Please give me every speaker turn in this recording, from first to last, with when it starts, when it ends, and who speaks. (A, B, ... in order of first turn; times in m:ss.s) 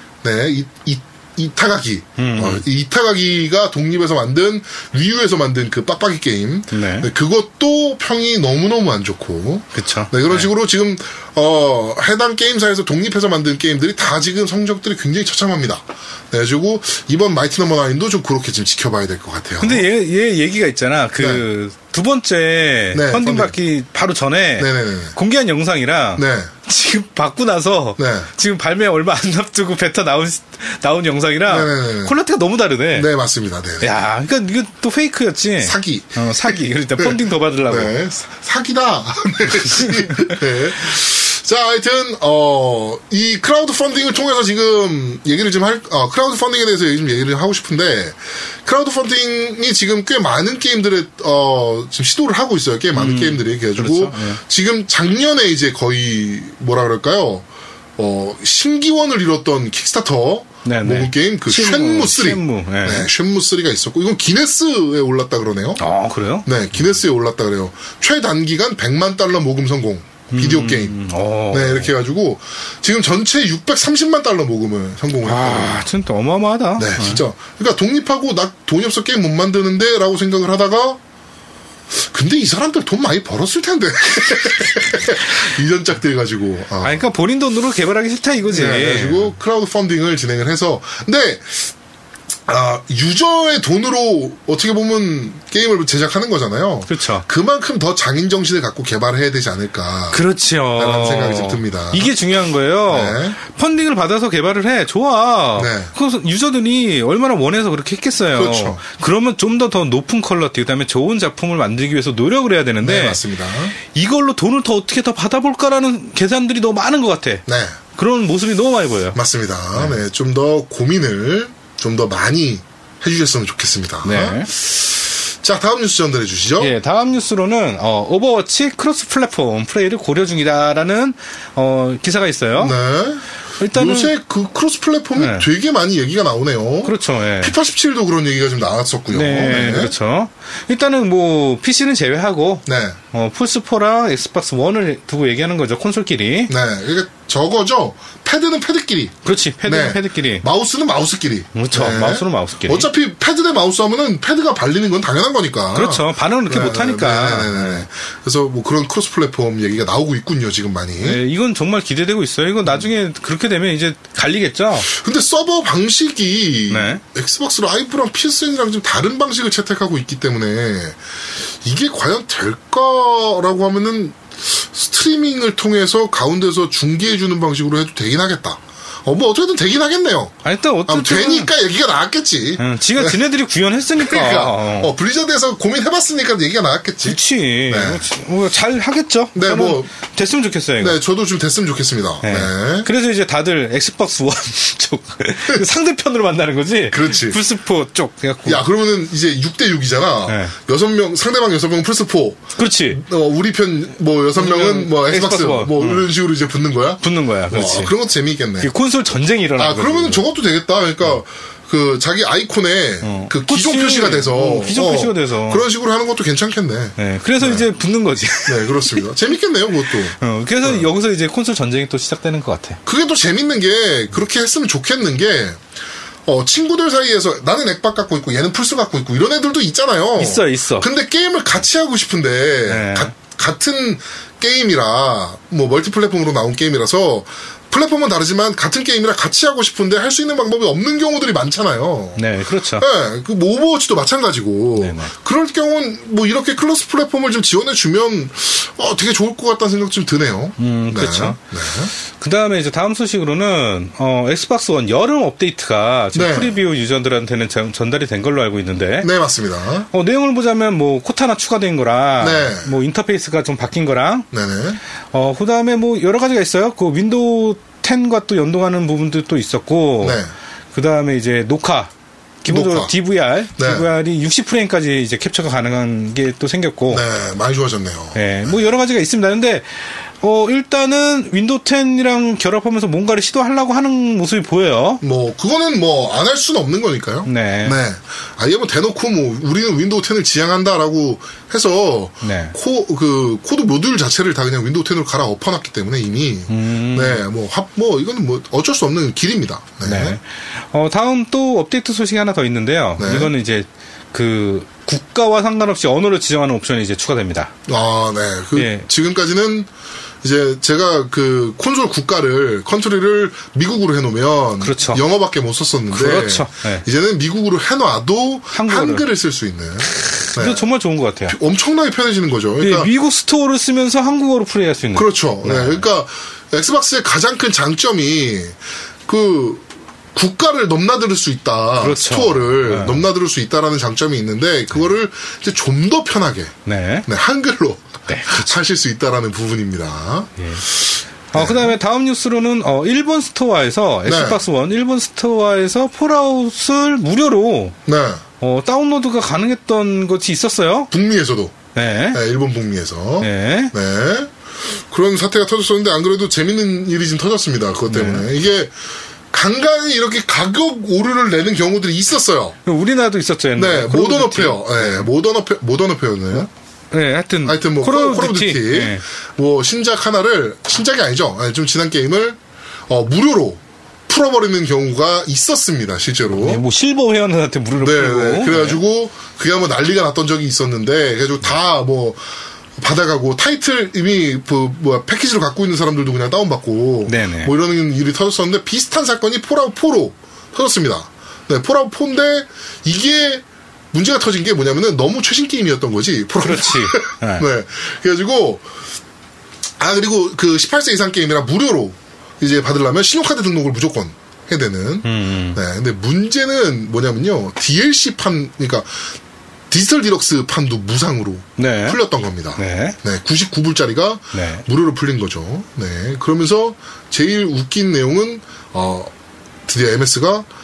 0:00.2-0:19.8 A
0:02.2-0:02.6 B
0:06.7-0:07.1 B
0:09.7-0:10.5 B
0:19.6-0:33.1 B
0:21.2-0:21.4 A
0:22.9-0:23.5 A
0:24.6-0:25.2 A
0:26.2-0:26.5 A
0:28.0-0:28.3 A
0:31.5-0:32.1 A
0:32.9-0:33.9 A
0:33.8-0:37.9 B
0:35.6-1:05.8 A
0:39.7-0:40.3 B
0:52.9-0:54.4 B
1:00.6-1:03.1 B
1:05.8-1:06.5 B
1:06.4-1:11.0 A
1:10.3-1:11.9 B
1:11.5-1:15.8 A
1:15.2-1:17.2 B
1:16.8-1:21.0 A
1:21.9-1:27.0 A
1:26.8-1:29.3 B
1:28.5-1:31.7 A
1:32.5-1:40.2 A
1:36.9-1:37.2 B
1:40.1-1:53.2 B
1:40.8-1:42.1 A
1:42.9-1:43.4 A
1:45.6-1:45.9 A
1:48.3-1:48.8 A
1:52.8-1:53.7 A
1:53.8-1:57.4 B
1:57.5-1:57.8 A
1:57.9-1:59.2 B
1:59.1-2:06.7 A
2:04.0-2:04.5 B
2:06.6-2:12.8 B
2:12.6-2:19.9 A
2:13.6-2:14.1 B
2:15.2-2:15.5 B
2:16.8-2:17.5 B
2:19.1-2:26.5 B
2:22.6-2:23.0 A
2:26.5-2:41.2 A
2:29.2-2:30.4 B
2:31.5-2:32.9 B
2:35.7-2:37.8 B
2:41.0-2:44.9 B
2:44.8-2:51.0 A
2:46.7-2:47.0 B
2:51.6-3:03.2 A
3:00.4-3:01.5 B
3:02.6-3:04.9 B
3:04.0-3:08.0 A
3:07.0-3:11.0 B
3:09.3-3:09.9 A
3:10.8-3:12.9 A
3:12.2-3:18.6 B
3:16.9-3:17.4 A
3:18.4-3:28.7 A
3:20.3-3:20.5 B
3:22.6-3:23.0 B
3:24.4-3:26.1 B
3:27.0-3:27.9 B
3:28.6-3:30.2 B
3:29.6-3:37.6 A
3:33.0-3:35.6 B
3:37.0-3:39.0 B
3:38.4-3:40.9 A
3:40.2-3:42.8 B
3:42.8-3:45.6 A
3:46.2-4:02.2 A
3:50.2-3:50.9 B
3:52.6-3:53.1 B
4:02.2-4:02.9 B
4:02.8-4:11.9 A
4:04.8-4:05.1 B
4:10.6-4:11.4 B
4:12.1-4:19.1 B
4:16.1-4:16.6 A
4:19.0-4:19.9 A
4:19.9-4:24.3 B
4:22.2-4:22.7 A
4:24.3-4:24.8 A
4:25.1-4:30.2 B
4:30.0-4:30.3 A
4:30.7-4:31.9 B
4:32.4-4:37.0 B
4:32.5-4:32.9 A
4:33.6-4:33.9 A
4:36.9-4:38.5 A
4:38.1-4:45.0 B
4:45.0-5:00.2 A
4:47.2-4:47.8 B
4:52.2-4:52.5 B
4:56.5-4:57.2 B
4:59.8-5:07.5 B
5:03.0-5:03.3 A
5:07.7-5:09.7 A
5:08.5-5:08.9 B
5:10.2-5:20.7 A
5:14.6-5:15.0 B
5:15.9-5:16.8 B
5:18.5-5:19.1 B
5:19.9-5:21.4 B
5:21.3-5:22.9 A
5:22.6-5:25.8 B
5:24.9-5:36.5 A
5:31.8-5:33.1 B
5:36.6-5:37.1 B
5:37.0-5:40.8 A
5:38.1-5:38.5 B
5:40.4-5:40.6 B
5:41.3-5:47.8 B
5:41.3-5:41.7 A
5:44.0-5:44.4 A
5:47.8-5:48.2 A
5:48.4-5:50.9 B
5:50.9-5:51.6 A
5:51.7-5:52.2 B
5:52.1-5:58.7 A
5:53.2-5:53.7 B
5:57.9-5:58.3 B
5:59.3-6:02.6 A
6:02.6-6:05.1 B
6:03.6-6:06.5 A
6:06.9-6:09.0 B
6:07.4-6:16.6 A
6:16.4-6:18.8 B
6:17.8-6:22.2 A
6:22.8-6:38.6 A
6:27.0-6:27.5 B
6:36.4-6:37.4 B
6:39.8-6:49.1 A
6:45.0-6:45.6 B
6:49.7-6:59.1 A
6:51.6-6:52.0 B
6:52.6-6:53.0 B
6:54.3-6:54.6 B
6:59.6-7:00.5 A